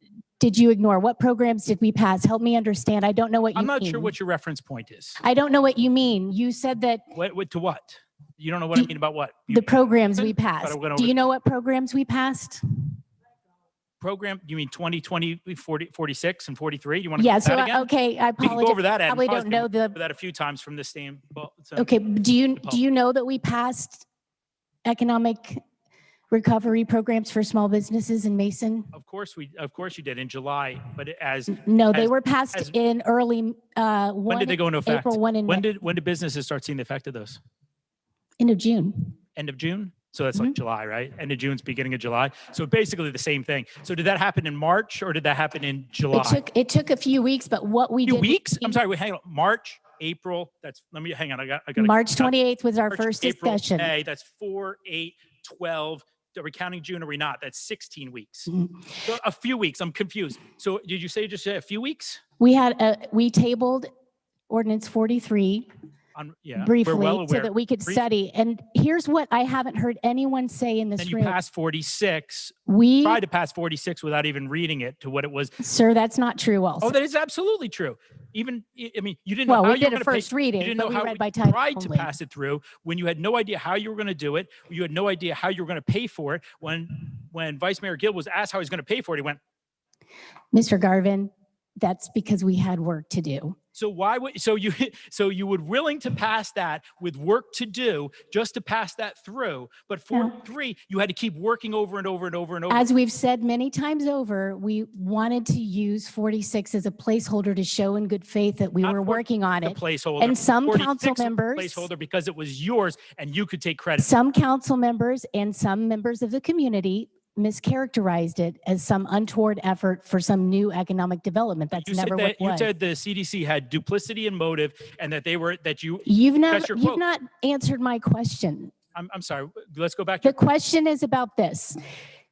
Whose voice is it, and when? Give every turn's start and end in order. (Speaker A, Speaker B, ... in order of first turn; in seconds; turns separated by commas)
Speaker A: 0.4-4.1, Speaker B: 3.5-5.2, Speaker A: 5.2-7.0, Speaker B: 7.1-11.1, Speaker A: 9.5-12.6, Speaker B: 14.0-17.9, Speaker A: 17.2-19.9, Speaker B: 18.4-22.0, Speaker A: 21.8-24.1, Speaker A: 24.9-25.6, Speaker A: 26.3-28.9, Speaker B: 28.9-32.7, Speaker A: 31.5-35.6, Speaker B: 34.3-37.4, Speaker A: 38.4-39.1, Speaker B: 39.4-46.4, Speaker A: 46.1-48.8, Speaker B: 48.1-52.3, Speaker A: 51.8-53.9, Speaker B: 52.9-62.2, Speaker A: 62.4-63.9, Speaker A: 64.5-65.7, Speaker B: 66.2-68.0, Speaker A: 66.6-71.4, Speaker B: 71.0-75.6, Speaker A: 72.7-73.2, Speaker A: 75.6-76.9, Speaker B: 76.8-89.4, Speaker A: 79.5-82.1, Speaker A: 90.5-93.6, Speaker B: 93.8-102.9, Speaker A: 102.7-111.9, Speaker B: 108.8-114.1, Speaker A: 114.0-122.7, Speaker B: 121.7-127.0, Speaker A: 126.1-128.7, Speaker B: 128.9-130.4, Speaker A: 130.2-131.8